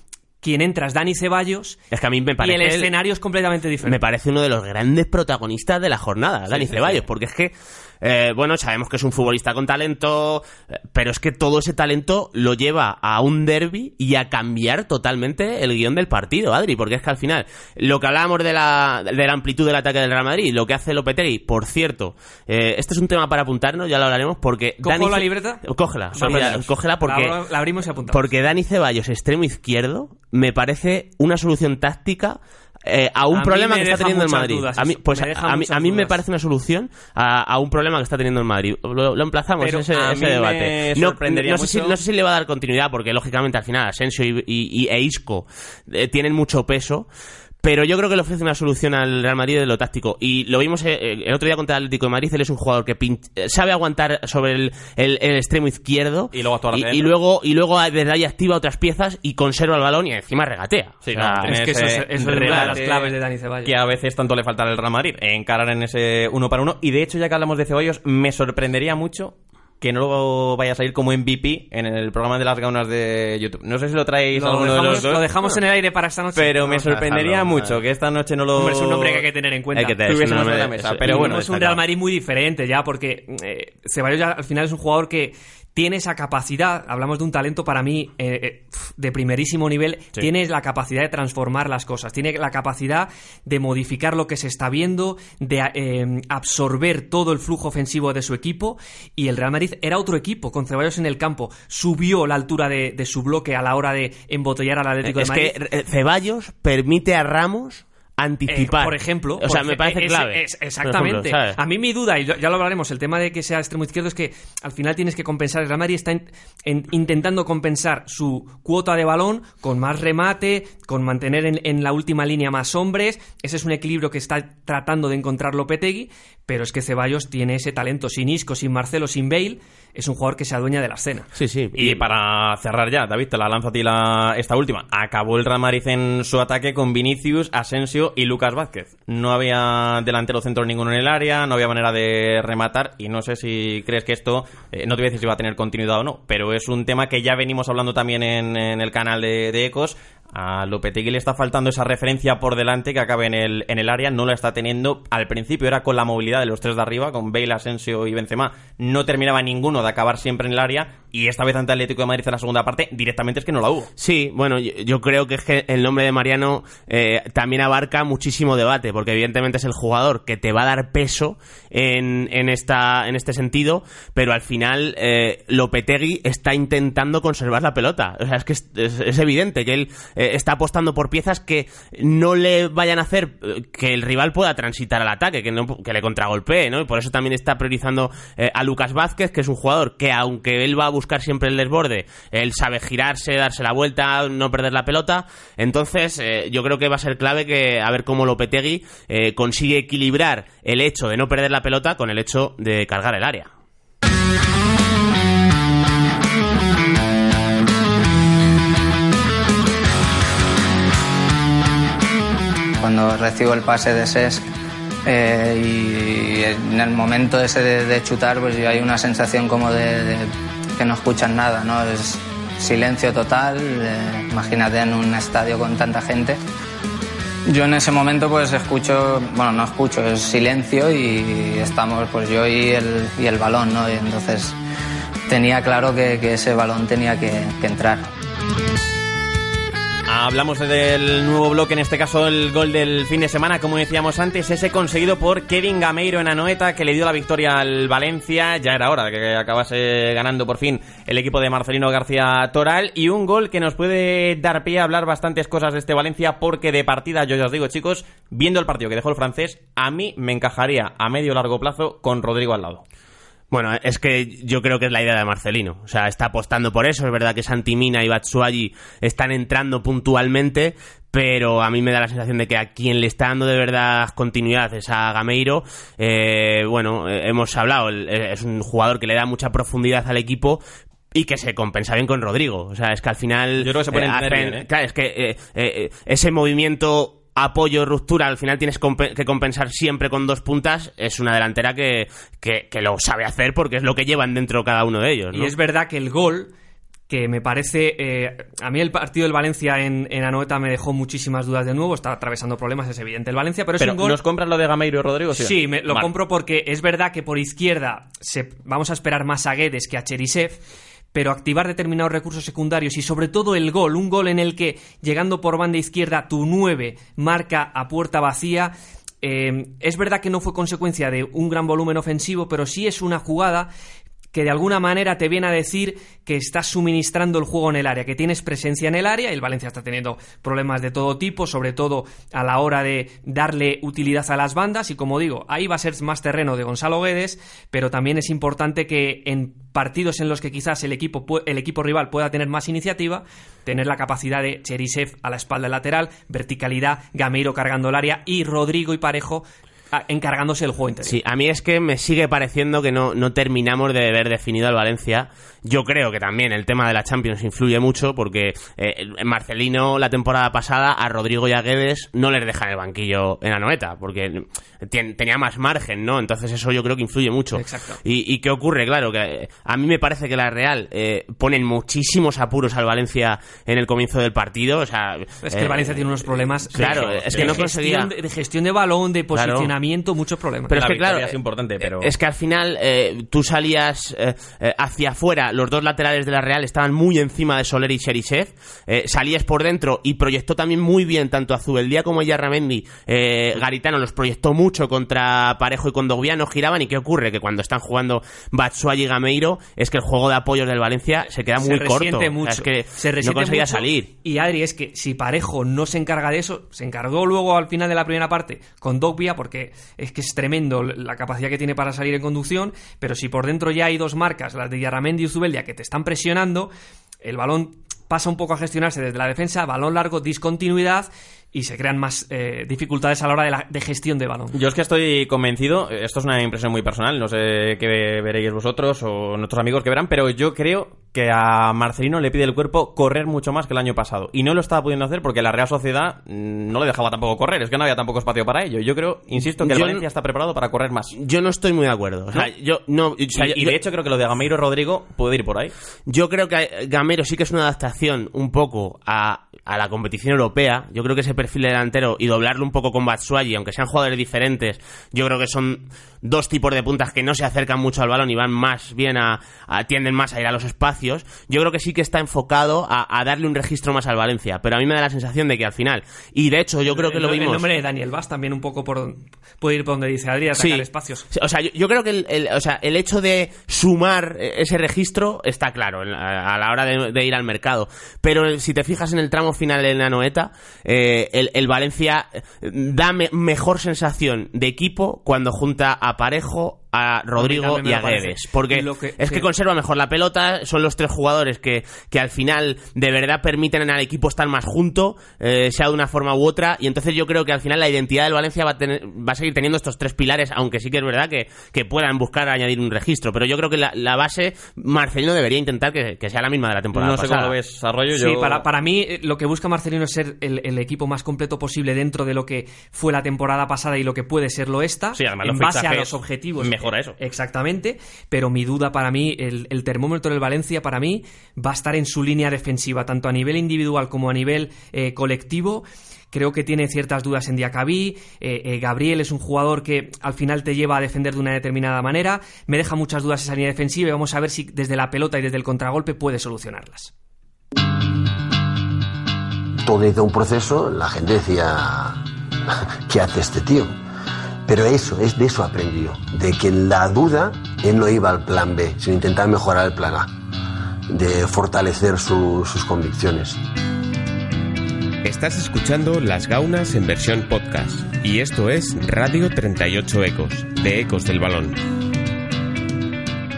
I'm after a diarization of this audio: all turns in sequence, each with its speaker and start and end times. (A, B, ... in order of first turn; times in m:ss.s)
0:00.4-0:01.8 A
0:01.9-0:02.9 B
0:02.4-0:04.0 A
0:03.8-0:27.4 B
0:06.5-0:07.0 C
0:24.8-0:28.3 A
0:26.2-0:26.6 C
0:28.1-0:47.1 B
0:33.3-0:36.2 A
0:39.7-0:42.0 C
0:47.6-1:01.5 B
0:56.3-0:57.1 C
1:01.0-1:15.3 C
1:01.4-1:03.7 A
1:02.4-1:02.8 B
1:14.3-1:16.9 A
1:16.4-1:19.2 C
1:16.9-1:17.7 B
1:18.5-1:20.0 A
1:19.8-1:21.8 B
1:20.0-1:21.5 C
1:21.0-1:45.5 A
1:45.0-1:51.6 B
1:48.5-2:11.3 A
2:11.3-2:12.0 B
2:11.7-2:43.9 C
2:44.0-3:23.5 B
3:32.8-3:34.4 D
3:35.0-3:46.4 D
3:47.5-3:54.6 D
3:55.3-3:58.1 D
4:00.1-4:22.8 C
4:23.5-4:40.6 B
4:41.1-4:55.5 B
4:43.6-4:44.6 C
4:55.3-4:56.5 A
4:57.1-5:04.2 A
5:03.8-5:06.1 C
5:05.3-5:10.6 A
5:11.1-5:23.7 A
5:24.3-5:51.2 A
5:51.0-6:16.0 B
6:07.5-6:08.0 A
6:15.4-6:20.7 A
6:16.7-6:17.6 C
6:16.7-6:18.1 B
6:19.3-6:19.7 B
6:20.7-6:44.1 B
6:20.7-6:22.1 C
6:41.6-6:56.7 A
6:57.2-7:04.5 A
7:04.5-7:21.1 C
7:19.6-7:20.0 B
7:21.1-7:23.7 B
7:23.3-7:25.7 C
7:26.1-7:47.6 B
7:46.8-7:51.3 A
7:50.6-8:27.5 B
8:07.4-8:09.5 A
8:26.9-8:28.6 C
8:28.1-8:57.1 A
8:35.1-8:37.2 C
8:59.8-9:02.2 E
9:03.0-9:03.9 E
9:04.6-9:10.3 E
9:11.1-9:13.6 E
9:15.2-9:21.8 F